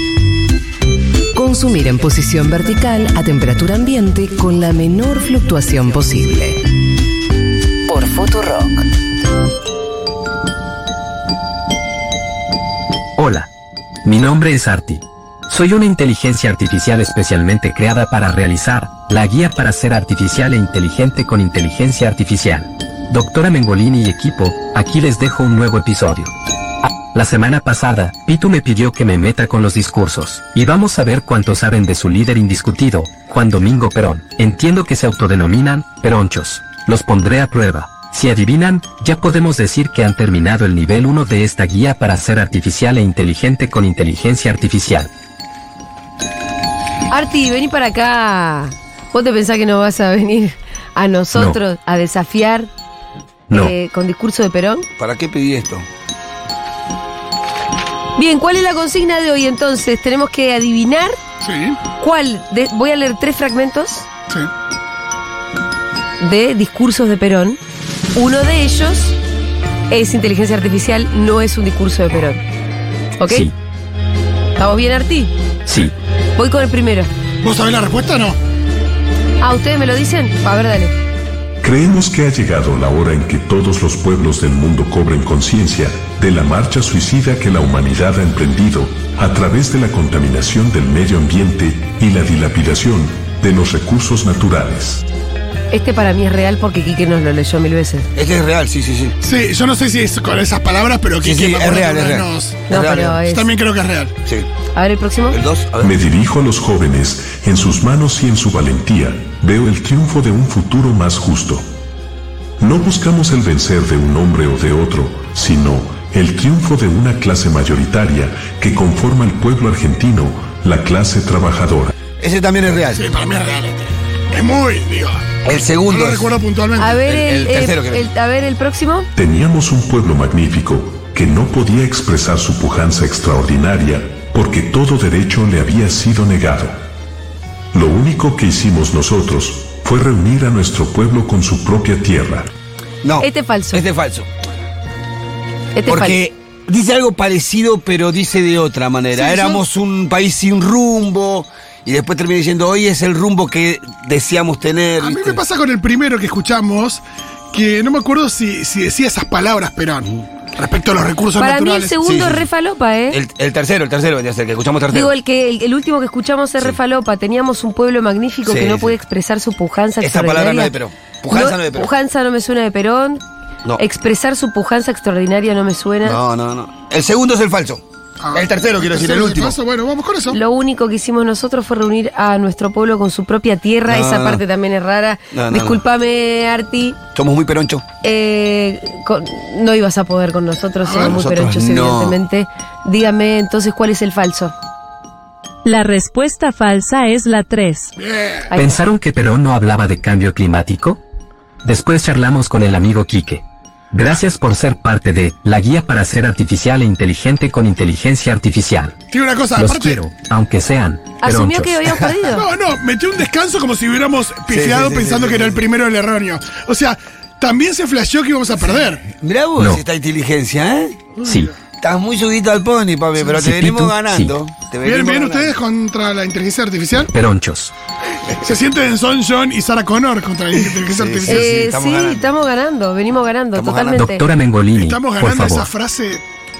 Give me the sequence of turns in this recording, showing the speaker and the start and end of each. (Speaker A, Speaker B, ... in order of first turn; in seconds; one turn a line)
Speaker A: 1.3-6.6
Speaker A: 7.9-8.8
Speaker B: 13.2-13.5
Speaker B: 14.0-26.3
Speaker B: 27.1-45.1
Speaker C: 47.1-52.7
Speaker C: 53.5-54.9
Speaker D: 55.0-55.9
Speaker C: 58.1-61.2
Speaker E: 61.4-61.8
Speaker C: 62.0-64.1
Speaker C: 66.2-67.6
Speaker C: 68.1-69.2
Speaker C: 69.9-72.4
Speaker C: 73.2-73.5
Speaker B: 73.3-73.5
Speaker C: 74.5-75.3
Speaker B: 75.7-75.9
Speaker C: 76.3-77.1
Speaker E: 77.4-78.4
Speaker C: 79.4-80.9
Speaker F: 81.6-95.0
Speaker C: 95.7-98.1
Speaker D: 98.1-99.2
Speaker E: 99.2-102.7
Speaker D: 101.2-103.3
Speaker C: 102.7-103.5
Speaker E: 103.3-104.1
Speaker C: 104.7-105.4
Speaker D: 105.3-105.9
Speaker F: 105.8-111.7
Speaker F: 112.6-121.9
Speaker D: 122.2-123.0
Speaker E: 122.9-127.0
Speaker D: 125.4-126.4
Speaker C: 126.8-129.1
Speaker D: 127.0-128.1
Speaker F: 129.1-136.8
Speaker F: 137.7-142.5
Speaker D: 143.0-144.3
Speaker C: 143.2-143.8
Speaker C: 145.8-146.2
Speaker D: 145.9-155.4
Speaker E: 149.1-149.6
Speaker E: 155.0-161.9
Speaker C: 161.3-163.2
Speaker D: 161.9-162.5
Speaker D: 163.1-165.1
Speaker C: 164.9-170.8
Speaker D: 168.4-168.9
Speaker D: 170.0-171.9
Speaker C: 171.3-173.2
Speaker C: 173.8-176.2
Speaker D: 176.0-179.6
Speaker E: 178.2-180.4
Speaker C: 180.3-187.0
Speaker D: 183.9-184.4
Speaker D: 185.3-185.8
Speaker D: 187.1-187.8
Speaker C: 188.0-194.5
Speaker E: 190.8-191.2
Speaker D: 191.1-192.2
Speaker G: 195.6-197.9
Speaker E: 198.0-198.5
Speaker B: 198.6-201.0
Speaker B: 201.6-208.9
Speaker E: 209.1-210.0
Speaker B: 209.6-211.8
Speaker C: 211.2-212.4
Speaker E: 212.3-219.1
Speaker D: 214.5-215.6
Speaker D: 218.8-221.2
Speaker B: 219.6-219.8
Speaker B: 221.2-221.5
Speaker D: 221.8-225.6
Speaker B: 223.4-224.3
Speaker E: 224.8-227.1
Speaker B: 227.1-227.7
Speaker E: 228.4-231.5
Speaker D: 230.6-232.3
Speaker C: 231.2-234.2
Speaker D: 233.5-234.1
Speaker B: 233.9-235.7
Speaker E: 234.8-236.2